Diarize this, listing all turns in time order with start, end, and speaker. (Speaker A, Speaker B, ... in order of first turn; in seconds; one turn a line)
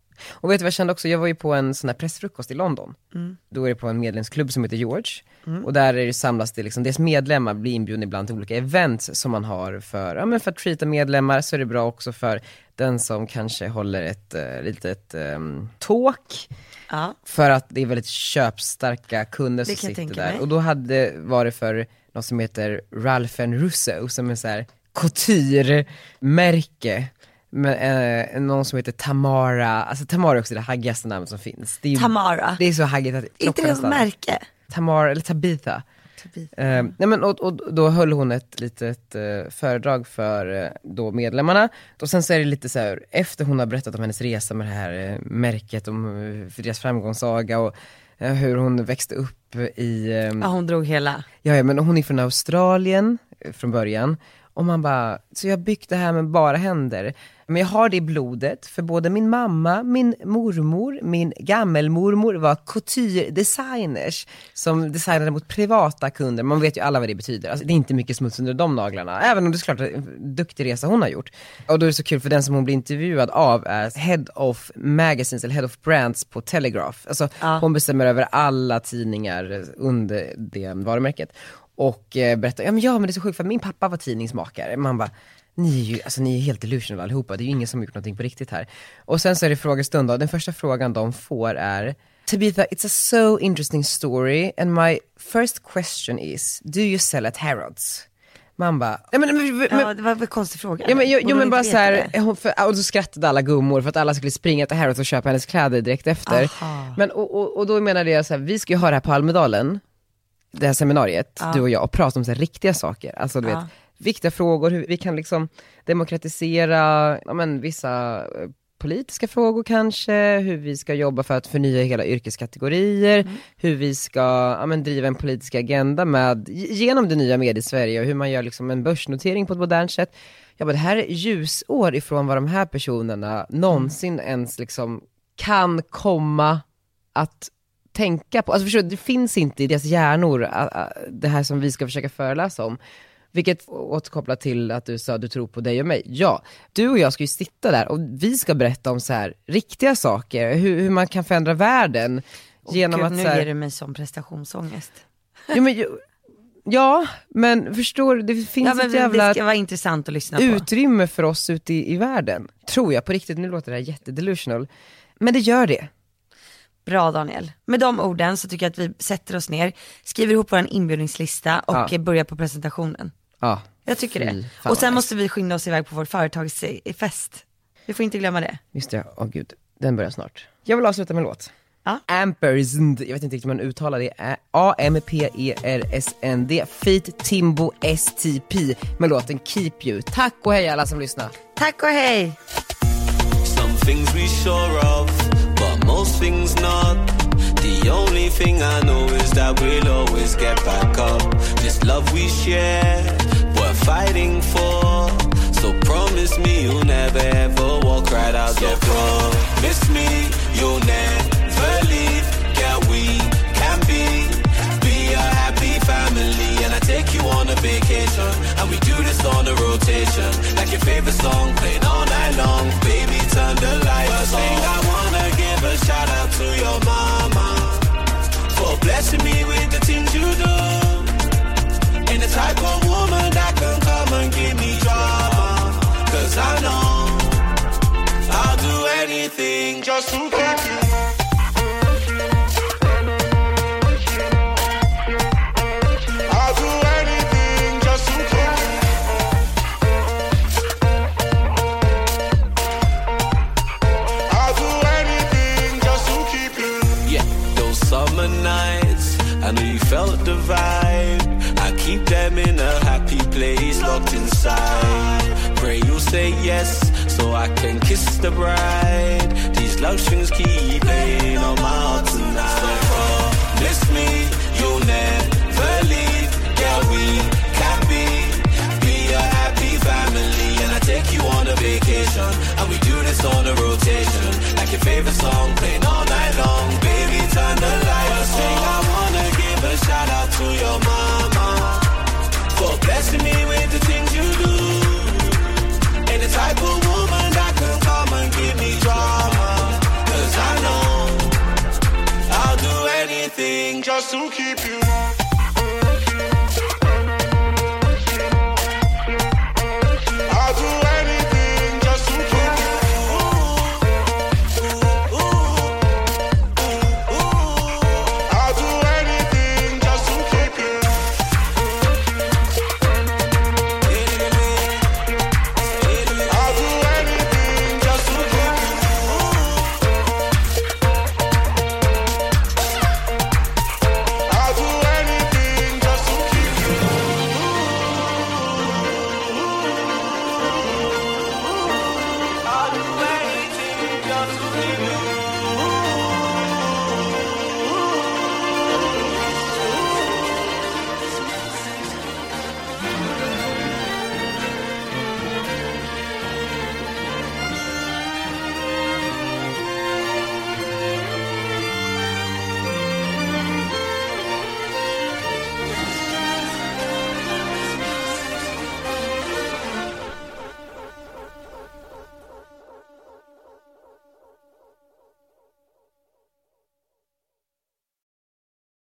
Speaker A: 0.4-3.0
Speaker B: 3.1-3.4
Speaker A: 3.5-16.5
Speaker B: 16.9-17.1
Speaker A: 17.2-34.0
Speaker B: 19.6-20.4
Speaker B: 31.9-32.6
Speaker B: 33.4-34.5
Speaker A: 34.7-35.8
Speaker B: 36.2-36.9
Speaker A: 36.5-50.5
Speaker B: 50.4-51.3
Speaker A: 51.4-98.0
Speaker A: 98.6-99.9
Speaker B: 99.7-102.1
Speaker A: 100.8-109.8
Speaker B: 106.3-107.0
Speaker A: 110.5-136.6
Speaker A: 137.1-142.8
Speaker A: 143.3-153.5
Speaker B: 152.7-155.0
Speaker A: 155.5-156.0
Speaker A: 156.7-159.4
Speaker B: 158.6-160.7
Speaker A: 160.3-164.7
Speaker A: 165.2-165.9
Speaker B: 166.8-173.1
Speaker A: 173.4-175.1
Speaker B: 173.8-178.6
Speaker A: 178.7-181.5
Speaker A: 182.1-191.3
Speaker B: 191.6-192.4
Speaker C: 193.4-231.2
Speaker C: 232.1-237.5
Speaker C: 238.3-240.9
Speaker C: 248.0-248.6
Speaker C: 256.9-291.9
Speaker C: 292.5-295.5
Speaker C: 296.1-301.4
Speaker C: 302.3-304.8
Speaker C: 311.7-313.4
Speaker C: 315.3-315.6
Speaker C: 317.3-318.3
Speaker C: 320.0-320.7
Speaker C: 323.9-324.9
Speaker C: 325.8-329.1
Speaker C: 334.5-336.6
Speaker C: 342.5-345.5